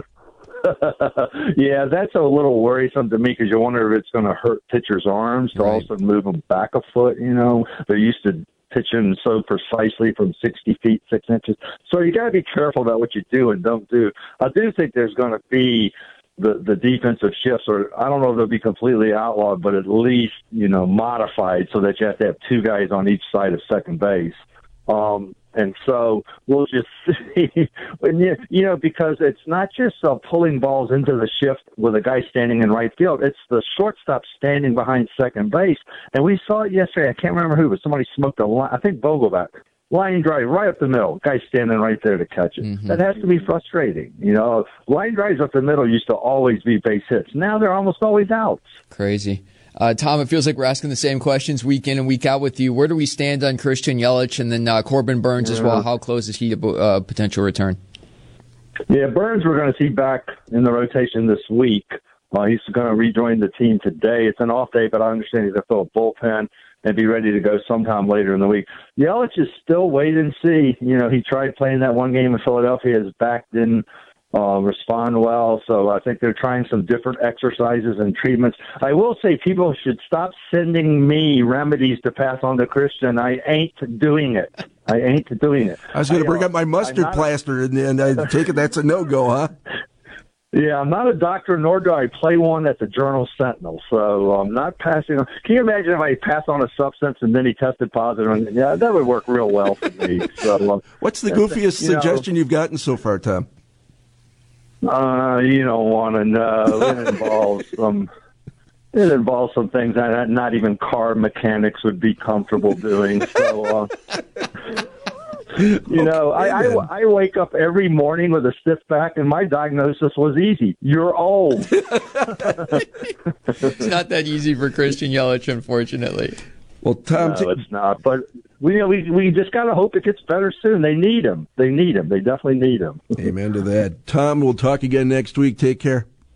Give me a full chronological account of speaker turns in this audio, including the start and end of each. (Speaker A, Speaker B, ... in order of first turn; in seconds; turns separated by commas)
Speaker A: 0.6-24.4, Speaker B: 5.5-5.9, Speaker A: 24.9-48.6, Speaker B: 42.6-43.0, Speaker B: 48.9-57.8, Speaker A: 55.5-55.8, Speaker A: 58.9-87.3, Speaker C: 85.9-89.5, Speaker A: 90.5-100.8, Speaker C: 101.0-103.5, Speaker A: 104.8-108.1, Speaker A: 108.9-113.9, Speaker A: 115.8-121.8, Speaker B: 123.5-126.4, Speaker C: 126.8-127.5, Speaker A: 127.2-133.0, Speaker C: 133.2-136.1